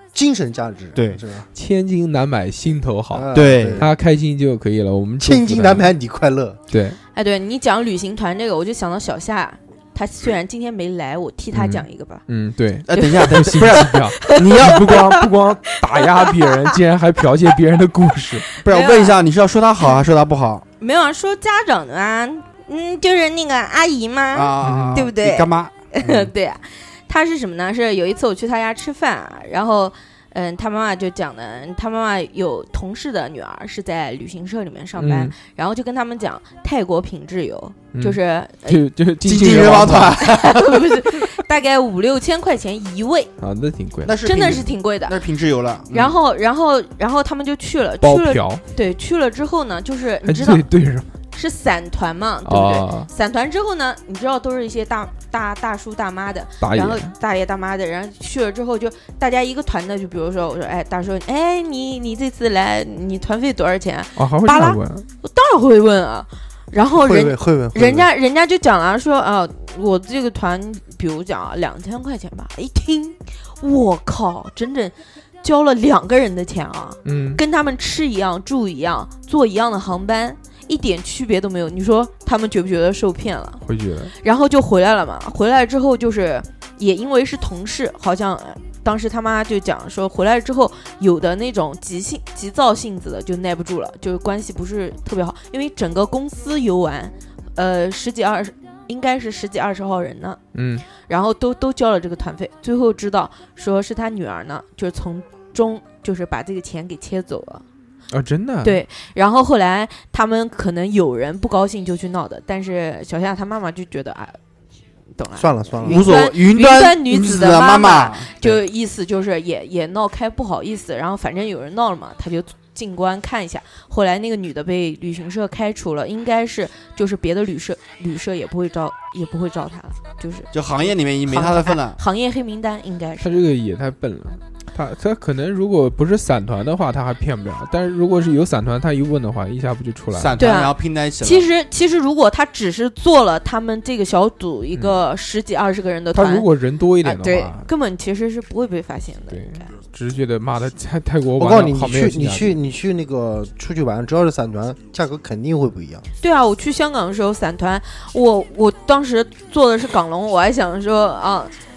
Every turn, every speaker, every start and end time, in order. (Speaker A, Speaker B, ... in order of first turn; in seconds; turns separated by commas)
Speaker A: 0.1-1.5, Speaker B: 0.9-1.2, Speaker C: 1.5-5.9, Speaker A: 3.1-3.9, Speaker B: 3.3-3.9, Speaker A: 5.2-6.6, Speaker C: 6.7-7.0, Speaker D: 7.1-12.2, Speaker C: 11.5-18.4, Speaker B: 12.9-15.2, Speaker D: 13.0-15.1, Speaker D: 15.9-16.7, Speaker D: 18.5-19.2, Speaker B: 18.6-20.6, Speaker D: 20.8-38.8, Speaker B: 24.3-26.3, Speaker C: 24.6-25.0, Speaker C: 35.0-35.3, Speaker C: 37.9-40.2, Speaker B: 39.2-40.9, Speaker D: 39.5-43.3, Speaker C: 43.4-44.2, Speaker B: 44.0-46.1, Speaker D: 44.2-45.2, Speaker D: 45.9-50.6, Speaker C: 48.0-48.6, Speaker C: 50.2-51.1, Speaker D: 51.3-83.6, Speaker C: 52.4-53.1, Speaker C: 56.6-57.1, Speaker C: 64.2-65.1, Speaker A: 66.9-68.1, Speaker C: 77.0-77.4, Speaker C: 83.6-84.1, Speaker D: 84.1-107.6, Speaker C: 100.5-100.8, Speaker C: 108.1-108.8, Speaker D: 108.6-114.4, Speaker D: 115.2-133.3, Speaker A: 115.4-116.1, Speaker B: 115.8-118.6, Speaker B: 130.5-132.0, Speaker C: 133.2-140.4, Speaker B: 140.1-141.5, Speaker D: 140.4-146.5, Speaker C: 146.1-147.7, Speaker D: 147.0-149.7, Speaker C: 149.3-152.6, Speaker A: 151.4-156.0, Speaker D: 156.2-161.5